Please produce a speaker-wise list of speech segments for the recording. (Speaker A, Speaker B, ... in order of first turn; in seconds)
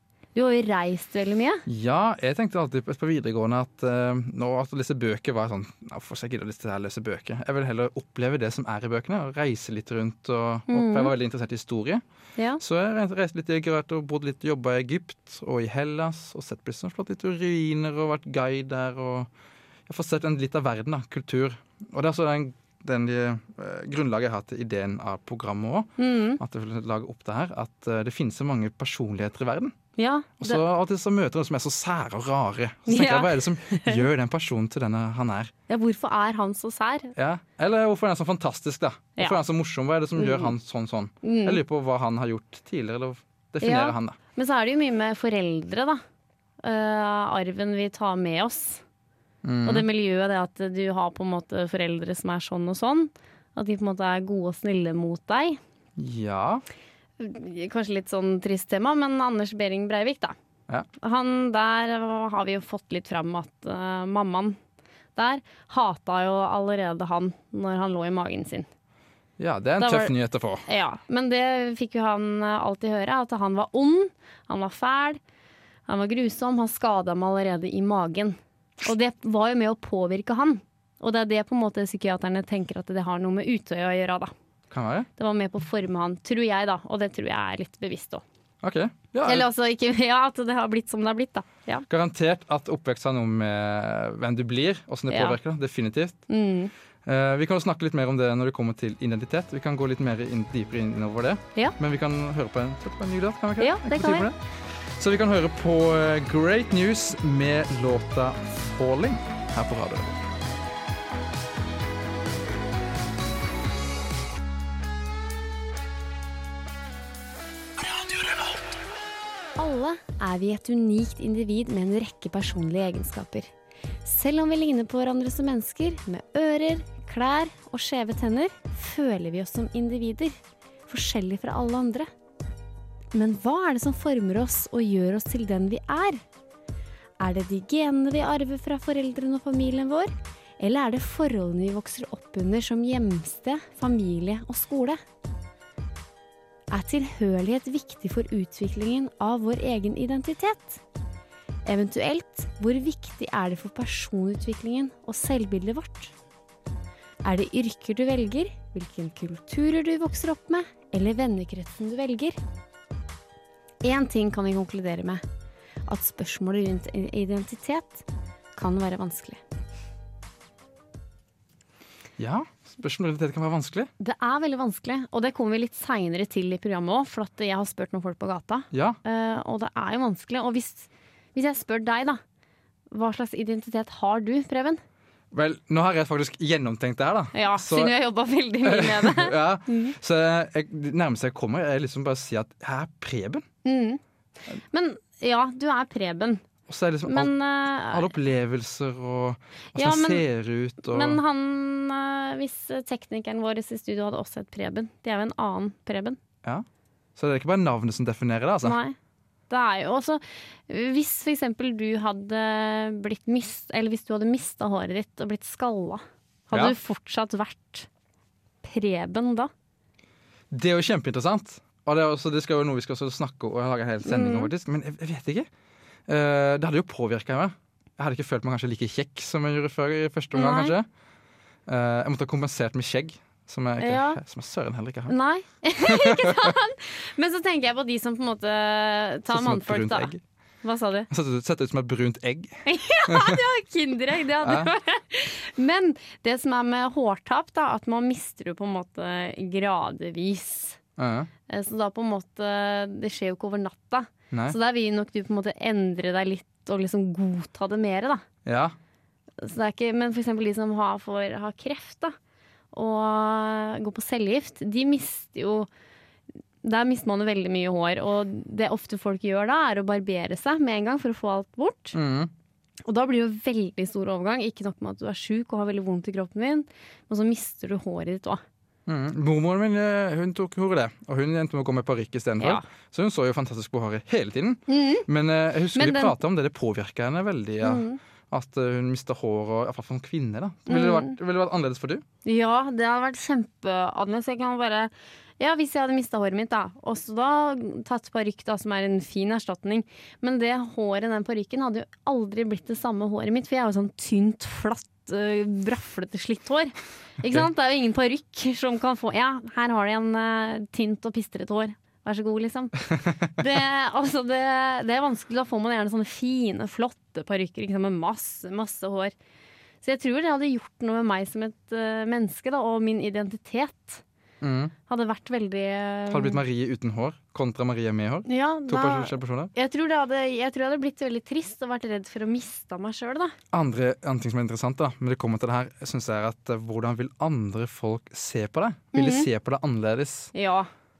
Speaker A: 0.3-1.6, 10.7-11.1, 26.0-26.4, 30.0-30.6, 32.9-34.0, 35.7-37.1, 40.1-40.5, 41.2-41.6, 43.6-46.0, 46.6-48.8, 49.6-55.6, 57.2-60.3, 61.0-64.6, 65.2-68.7, 69.8-70.1, 70.7-75.2, 75.9-84.3, 85.2-88.2, 89.2-91.8, 95.1-95.4, 96.3-96.7, 103.6-104.3, 119.6-123.5, 124.0-130.3, 130.9-132.1, 133.1-136.2, 137.2-145.0, 146.7-150.8, 151.6-156.1, 157.2-162.4, 163.8-165.2, 165.9-169.4, 174.0-182.2, 182.9-184.8, 187.3-189.9, 193.6-194.0, 194.5-196.4, 197.1-198.1, 199.8-200.2, 200.8-206.2, 208.6-208.9, 209.5-217.9, 218.6-219.5, 224.0-224.5, 230.3-230.7, 233.8-234.2, 235.1-240.1, 240.6-241.1, 242.7-250.8, 251.5-258.2, 259.4-262.1, 262.7-265.7, 266.6-272.0, 272.9-278.4, 284.7-285.1, 285.7-286.1, 287.6-288.0, 290.7-291.1, 292.2-319.1, 319.8-324.0, 324.9-326.4, 328.2-333.4, 338.9-339.3, 340.3-340.7
Speaker B: 1.7-12.0, 12.6-19.3, 19.9-29.7, 30.4-35.5, 37.1-44.1, 49.4-49.9, 56.0-56.6, 69.4-70.6, 84.7-85.1, 88.6-89.5, 91.9-96.2, 97.0-110.2, 172.2-173.9, 178.7-179.0, 185.3-187.9, 188.6-193.4, 196.7-197.3, 197.9-201.2, 206.4-208.8, 220.5-225.5, 226.1-230.9, 231.7-235.1, 235.8-236.5, 239.3-240.2, 241.1-243.4, 244.4-244.7, 251.0-251.3, 254.3-254.6, 258.4-258.8, 271.9-272.3, 278.9-292.0, 324.4-324.7, 326.1-329.5, 333.5-340.3